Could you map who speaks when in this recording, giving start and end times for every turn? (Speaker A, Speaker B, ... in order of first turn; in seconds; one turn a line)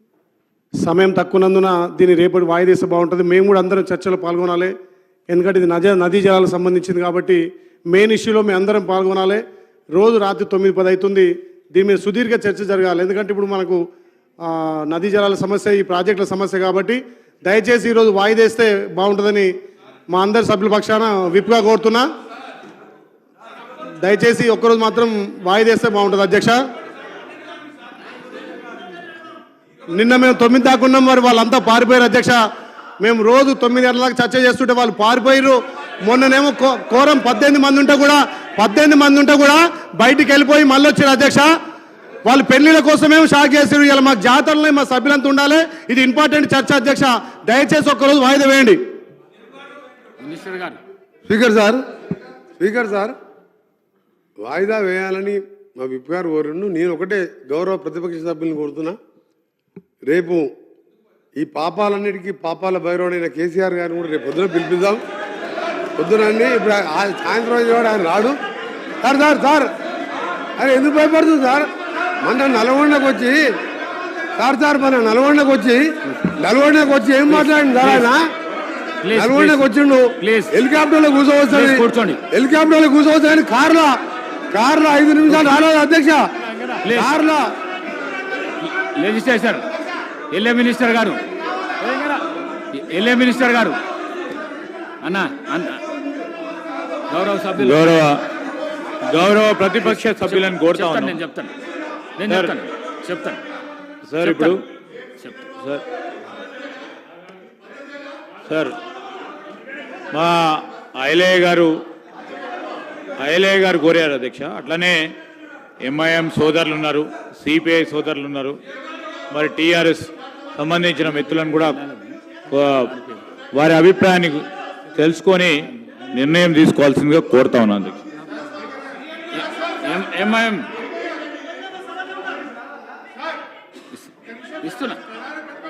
Speaker A: 0.8-4.7
Speaker A: 5.3-13.8
Speaker A: 14.4-19.5
Speaker A: 20.1-22.1
Speaker A: 24.0-26.6
Speaker A: 29.9-32.4
Speaker A: 33.0-41.5
Speaker A: 42.2-48.8
Speaker B: 50.2-50.8
Speaker C: 51.3-51.8
Speaker C: 52.6-53.1
Speaker C: 54.4-59.0
Speaker C: 60.0-60.5
Speaker C: 61.4-65.0
Speaker C: 66.0-68.4
Speaker C: 69.0-69.7
Speaker C: 70.6-71.7
Speaker C: 72.2-73.4
Speaker C: 74.3-78.2
Speaker B: 77.3-78.1
Speaker B: 79.0-80.5
Speaker C: 79.1-84.0
Speaker B: 81.5-82.2
Speaker C: 84.5-86.3
Speaker B: 86.8-87.1
Speaker C: 86.9-87.5
Speaker B: 88.6-89.6
Speaker B: 90.3-91.2
Speaker B: 91.8-93.8
Speaker B: 95.0-95.8
Speaker B: 97.1-97.9
Speaker D: 97.6-98.2
Speaker D: 99.1-101.2
Speaker B: 99.8-101.5
Speaker B: 102.2-103.4
Speaker D: 102.3-102.5
Speaker D: 104.1-104.6
Speaker B: 104.2-104.6
Speaker D: 108.5-108.7
Speaker D: 110.1-111.8
Speaker D: 113.2-115.1
Speaker D: 115.8-118.6
Speaker D: 119.3-121.8
Speaker D: 122.5-122.9
Speaker D: 123.5-125.6
Speaker D: 126.1-128.0
Speaker B: 129.3-130.7
Speaker B: 134.6-135.0